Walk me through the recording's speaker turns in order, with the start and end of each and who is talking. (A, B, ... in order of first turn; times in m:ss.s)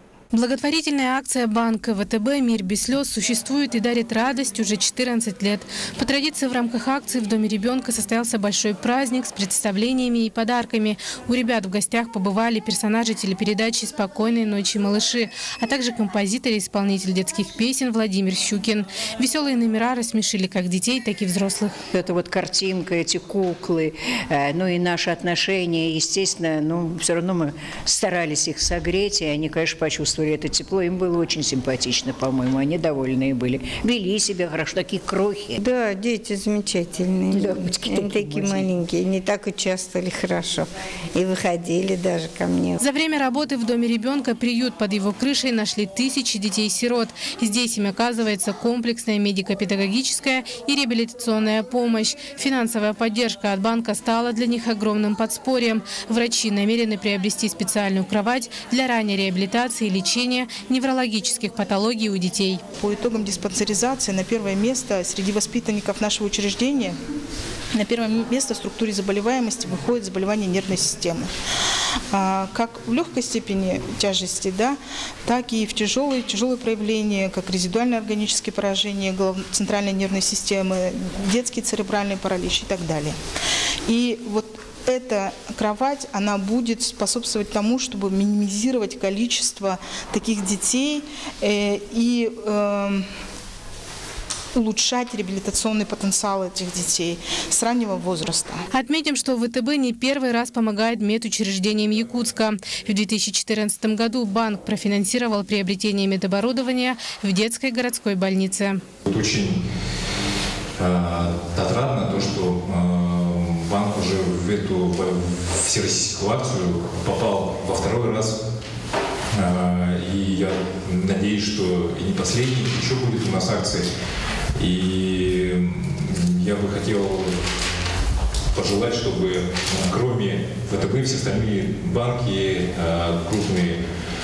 0:00.3-0:21.8 A
0:21.9-0:35.6 B
0:35.6-0:42.8 C
0:37.4-0:38.7 B
0:42.8-1:02.6 A
1:02.8-1:07.0 D
1:07.7-1:11.3 D
1:12.1-1:23.2 D
1:23.9-1:33.0 D
1:34.5-1:38.6 D
1:38.7-1:48.8 A
1:49.1-1:49.6 E
1:50.8-1:58.4 E
1:59.3-2:03.9 E
2:04.6-2:07.4 E
2:08.5-2:13.8 E